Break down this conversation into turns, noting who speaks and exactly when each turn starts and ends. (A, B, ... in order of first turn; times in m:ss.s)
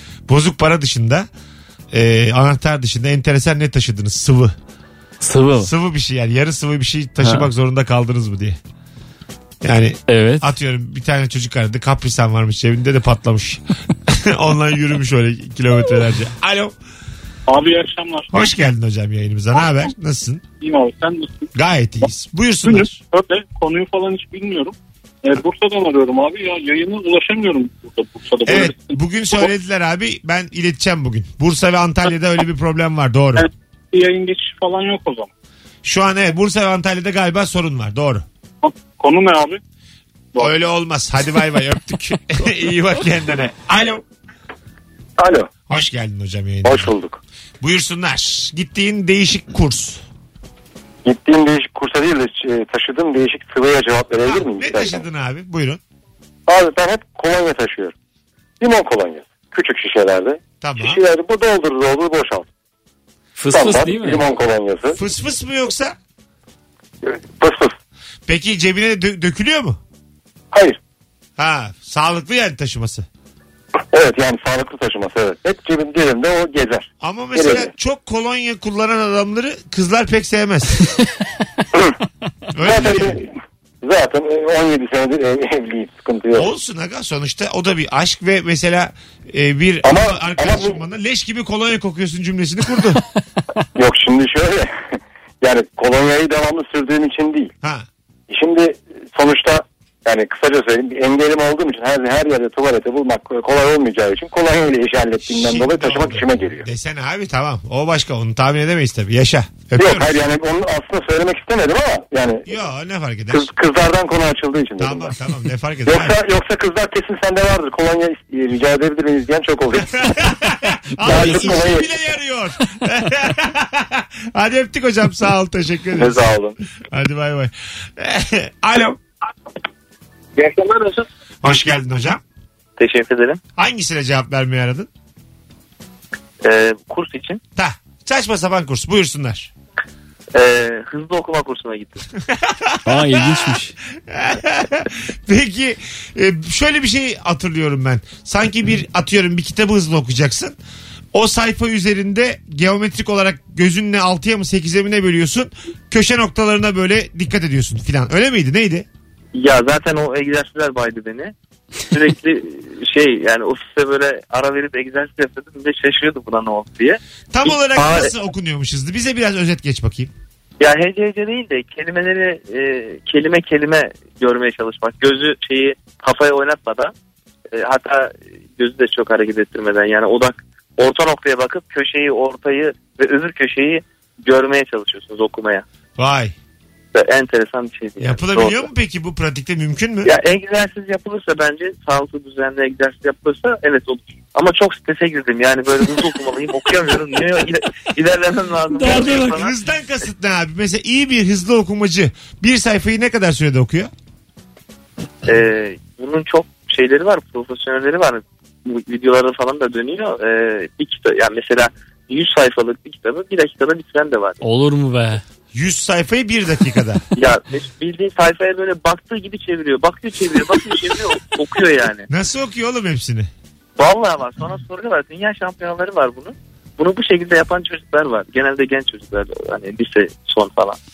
0:00.3-0:01.2 A
0:01.9-0:04.5 A
0:05.2-0:05.7 B
0:05.6-0:08.6 A
0:09.6-0:16.8 A
0:10.1-0:10.5 B
0:17.5-0:18.3 C
0:18.3-0:20.4 A
0:20.6-0:21.5 C
0:21.5-0:23.0 A
0:22.6-0:29.0 C
0:28.4-0:33.5 A
0:33.4-0:35.3 C
0:35.8-0:38.2 A
0:38.6-0:39.6 C
0:40.3-0:44.0 A
0:45.2-0:45.5 D
0:45.7-0:46.9 A
0:46.6-0:47.2 D
0:47.6-0:50.0 A
0:51.0-0:55.0 D
0:54.2-0:55.8 A
0:56.5-0:57.9 D
0:58.6-1:02.5 D
1:00.6-1:01.0 A
1:03.4-1:04.2 B
1:03.5-1:05.0 D
1:04.9-1:06.0 A
1:07.0-1:07.8 D
1:08.3-1:09.8 A
1:10.5-1:10.8 D
1:11.4-1:13.0 A
1:13.9-1:17.7 D
1:17.0-1:20.8 A
1:22.5-1:23.2 A
1:22.6-1:26.5 D
1:26.3-1:33.0 A
1:29.8-1:30.8 D
1:33.8-1:37.5 D
1:37.6-1:37.9 A
1:38.3-1:46.6 D
1:45.3-1:50.2 A
1:49.8-1:52.5 D
1:52.5-1:53.5 A
1:53.3-1:55.1 D
1:54.8-1:56.2 A
1:55.8-2:00.1 D
2:00.0-2:09.0 A
2:01.0-2:01.9 D
2:05.9-2:06.6 D
2:11.4-2:12.2 A
2:12.8-2:13.4 E
2:13.6-2:14.9 A
2:16.4-2:17.4 E
2:17.6-2:19.5 A
2:20.3-2:22.1 E
2:22.3-2:30.6 A
2:22.8-2:23.7 B
2:31.1-2:38.8 A
2:39.3-2:41.3 E
2:41.9-2:48.1 E
2:47.3-2:50.1 A
2:50.6-2:56.9 E
2:57.5-3:05.6 E
3:06.0-3:06.3 A
3:06.9-3:08.6 E
3:08.0-3:10.2 A
3:10.0-3:19.5 E
3:18.7-3:19.4 B
3:18.8-3:23.9 A
3:25.2-3:34.4 E
3:34.4-3:35.2 B
3:35.5-3:37.0 A
3:37.2-3:42.1 E
3:42.1-3:43.3 A
3:43.8-3:50.8 E